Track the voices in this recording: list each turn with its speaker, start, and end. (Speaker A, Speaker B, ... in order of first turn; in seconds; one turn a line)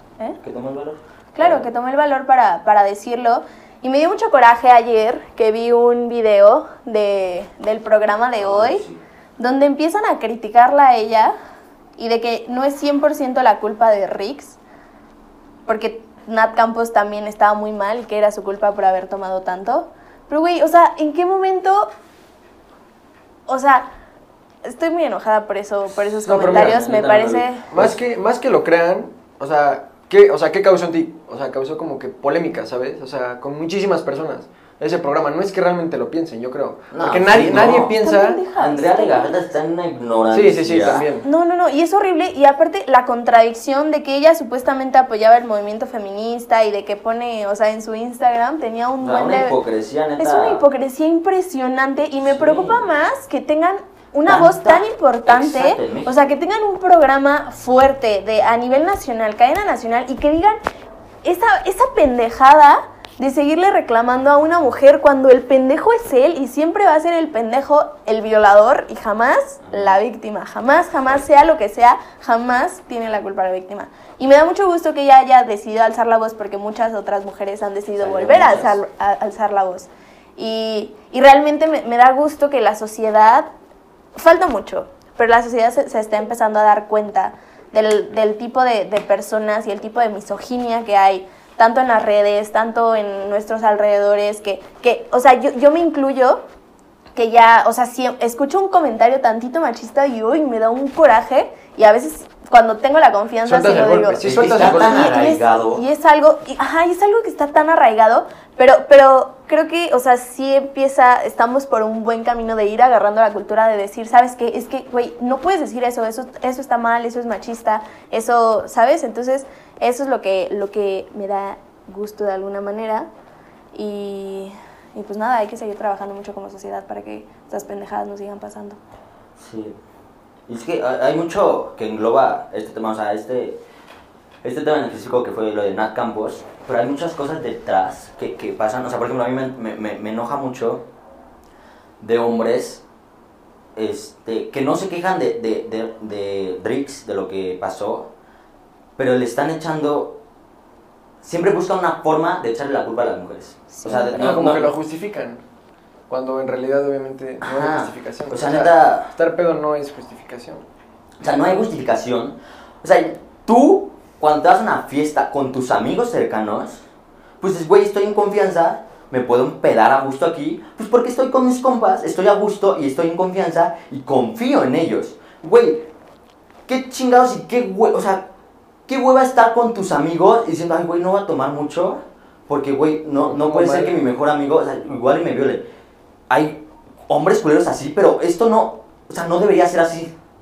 Speaker A: 0.4-1.7
Speaker B: 1.4-8.8
Speaker A: 8.4-9.0
Speaker B: 9.4-11.4
Speaker B: 12.0-14.6
Speaker B: 15.7-21.9
Speaker B: 23.5-23.9
Speaker B: 24.6-27.7
Speaker A: 26.2-28.0
Speaker C: 26.3-26.8
Speaker C: 27.7-38.4
Speaker A: 36.9-38.0
Speaker B: 37.7-39.4
Speaker A: 38.5-41.1
Speaker C: 40.3-41.3
Speaker B: 41.2-49.6
Speaker A: 49.0-50.6
Speaker B: 50.2-60.6
Speaker A: 52.2-52.9
Speaker A: 54.3-56.1
Speaker B: 61.2-83.5
Speaker A: 69.7-70.0
Speaker A: 78.0-78.8
Speaker B: 84.2-96.5
Speaker B: 97.2-123.1
Speaker C: 103.5-105.2
Speaker A: 104.2-105.8
Speaker B: 123.7-128.8
Speaker A: 129.4-129.8
Speaker A: 130.5-133.6
Speaker A: 134.4-140.8
Speaker A: 142.0-142.8
Speaker A: 143.8-148.1
Speaker A: 149.0-150.2
Speaker A: 151.2-154.7
Speaker B: 153.7-154.3
Speaker C: 153.9-155.4
Speaker C: 156.1-160.7
Speaker A: 157.4-159.1
Speaker A: 161.2-166.8
Speaker A: 167.4-175.9
Speaker A: 176.7-178.3
Speaker A: 178.9-185.7
Speaker C: 183.2-184.0
Speaker A: 186.3-190.1